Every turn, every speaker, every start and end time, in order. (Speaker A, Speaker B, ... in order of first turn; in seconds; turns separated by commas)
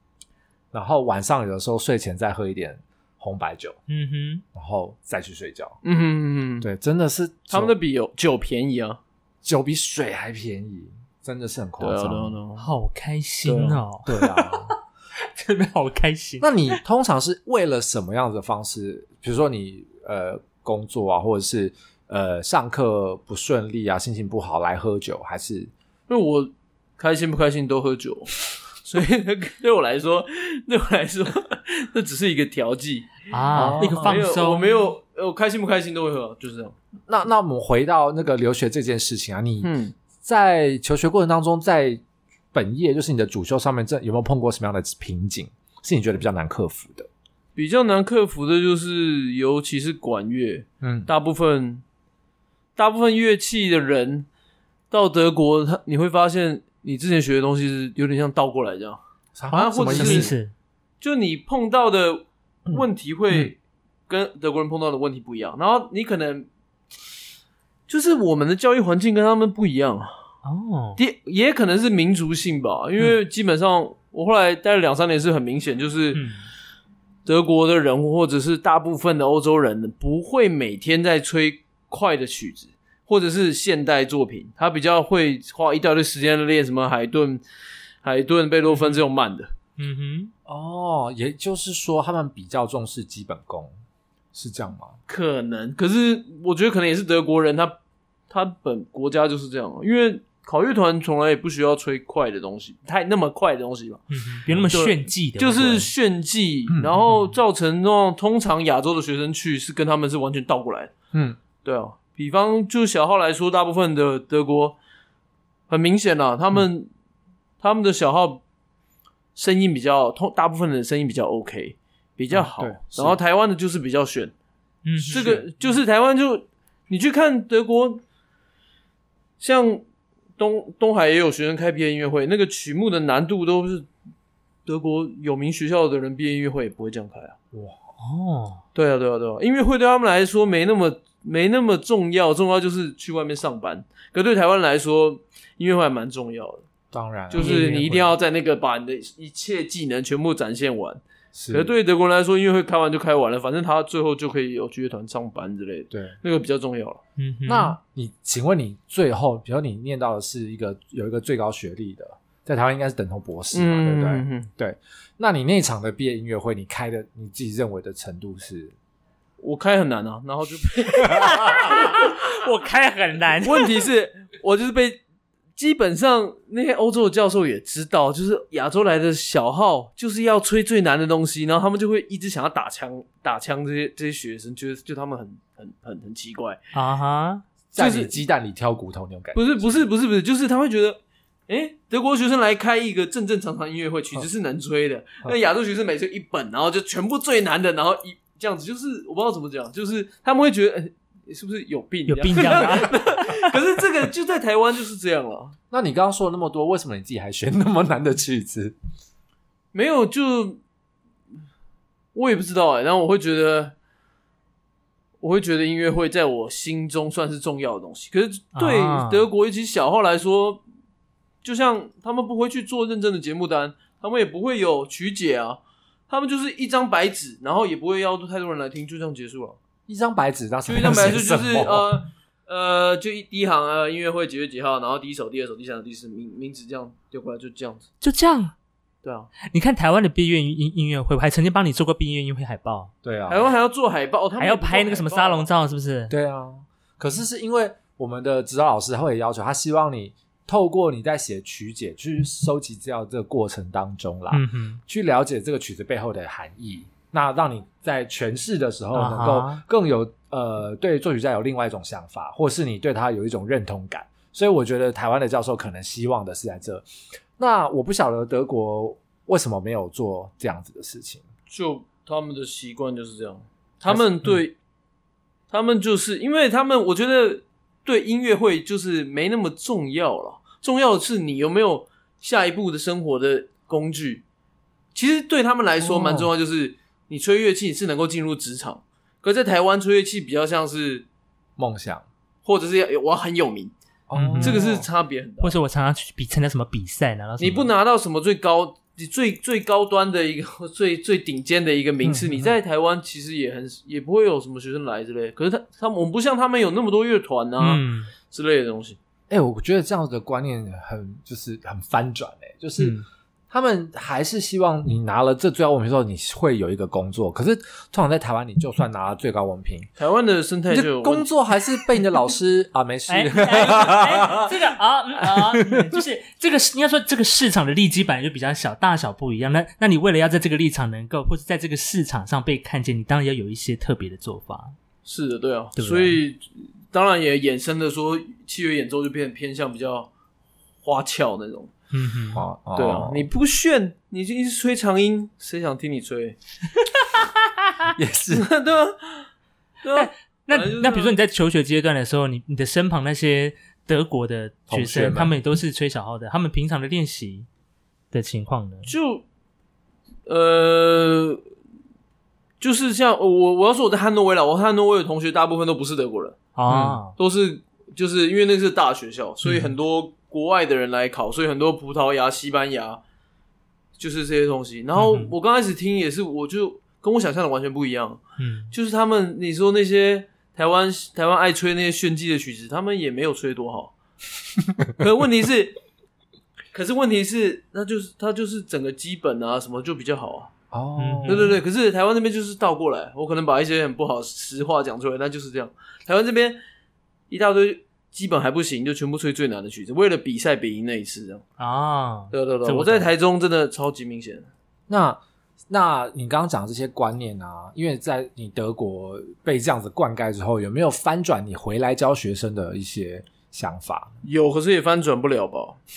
Speaker A: 0.7-3.8, Speaker B: 3.9-4.4, Speaker A: 4.5-5.8, Speaker C: 5.8-6.7, Speaker A: 6.6-7.7, Speaker C: 7.5-9.0, Speaker A: 9.4-12.4, Speaker C: 11.8-12.7, Speaker B: 12.6-16.8, Speaker C: 13.4-13.8, Speaker A: 14.1-14.7, Speaker A: 16.4-25.7, Speaker C: 26.1-36.7, Speaker B: 33.3-34.9, Speaker A: 33.5-34.2, Speaker A: 37.1-42.0, Speaker C: 39.6-39.9, Speaker A: 42.5-47.1, Speaker C: 47.5-51.8, Speaker A: 50.8-51.1, Speaker C: 52.8-54.3, Speaker C: 54.9-59.0, Speaker A: 59.3-60.3, Speaker C: 59.5-60.3, Speaker B: 59.9-60.5, Speaker C: 61.0-63.6, Speaker C: 64.1-66.5, Speaker C: 67.9-70.1, Speaker B: 70.4-71.0, Speaker C: 71.0-76.2, Speaker B: 76.1-76.4, Speaker C: 77.2-87.4, Speaker C: 88.0-89.5, Speaker B: 89.8-90.3, Speaker A: 90.5-93.7, Speaker A: 94.3-95.0, Speaker C: 95.1-97.8, Speaker C: 98.3-104.0, Speaker B: 104.1-105.9, Speaker A: 104.5-104.7, Speaker C: 104.7-110.9, Speaker A: 106.7-107.0, Speaker A: 111.1-111.4, Speaker C: 111.6-114.8, Speaker C: 115.7-116.9, Speaker C: 117.6-118.4, Speaker C: 119.3-124.3, Speaker A: 122.3-123.2, Speaker B: 124.8-125.4, Speaker C: 125.0-128.0, Speaker A: 125.1-125.4, Speaker C: 129.4-129.8, Speaker C: 130.4-133.9, Speaker C: 134.7-137.3, Speaker A: 137.5-137.8, Speaker B: 138.0-138.6, Speaker C: 138.7-146.6, Speaker A: 146.9-148.1, Speaker C: 147.3-157.0, Speaker B: 147.3-147.9, Speaker A: 151.3-151.7, Speaker A: 155.9-156.2, Speaker B: 157.2-157.8, Speaker A: 157.4-168.7, Speaker C: 163.5-164.5, Speaker C: 169.4-172.0, Speaker B: 171.1-173.8, Speaker C: 173.4-175.0, Speaker C: 175.6-186.6, Speaker B: 186.7-187.4, Speaker A: 187.7-189.9, Speaker C: 187.8-188.2, Speaker C: 189.3-205.5, Speaker B: 202.1-203.5, Speaker A: 205.7-208.8, Speaker C: 209.7-210.6, Speaker C: 212.1-213.7, Speaker C: 215.2-220.6, Speaker B: 218.5-219.3, Speaker C: 221.4-229.6, Speaker A: 229.9-232.0, Speaker C: 230.7-237.8, Speaker B: 238.0-238.5, Speaker C: 239.0-239.3, Speaker B: 239.4-242.9, Speaker A: 243.0-243.5, Speaker C: 243.3-245.5, Speaker B: 244.4-246.1, Speaker A: 246.1-266.9, Speaker B: 254.3-254.8, Speaker B: 258.9-259.6, Speaker A: 267.4-271.2, Speaker C: 271.5-274.6, Speaker A: 273.9-274.4, Speaker C: 275.5-284.2, Speaker C: 284.9-291.1, Speaker A: 285.8-286.3, Speaker A: 291.6-292.0, Speaker C: 292.4-293.7, Speaker A: 294.1-294.9, Speaker B: 294.1-294.6, Speaker C: 294.4-295.5, Speaker B: 295.4-297.7, Speaker C: 297.4-309.0, Speaker A: 302.0-302.5, Speaker B: 307.6-308.1, Speaker A: 309.3-319.9, Speaker B: 312.8-313.0, Speaker C: 320.0-321.3, Speaker A: 320.7-324.6, Speaker B: 323.1-334.8, Speaker A: 325.2-326.0, Speaker C: 335.0-340.1, Speaker A: 335.8-336.1, Speaker C: 340.8-341.7, Speaker B: 341.9-342.4, Speaker A: 342.3-343.3, Speaker C: 342.7-346.4, Speaker A: 347.9-348.5, Speaker C: 348.3-349.3, Speaker C: 349.8-351.1, Speaker B: 349.9-357.5, Speaker A: 354.7-355.3, Speaker B: 358.1-358.9, Speaker C: 358.8-359.2, Speaker C: 360.2-361.4, Speaker C: 362.6-366.4, Speaker B: 366.6-367.1, Speaker A: 366.7-367.0, Speaker C: 367.2-373.0, Speaker B: 369.4-369.7, Speaker C: 374.0-383.9, Speaker B: 374.9-375.3, Speaker B: 378.4-378.7, Speaker C: 385.0-385.8, Speaker C: 386.7-390.5, Speaker A: 390.7-391.6, Speaker B: 391.0-391.5, Speaker C: 391.2-396.6, Speaker C: 397.3-401.4, Speaker B: 401.6-403.1, Speaker C: 402.3-404.5, Speaker A: 404.9-414.1, Speaker C: 414.2-415.8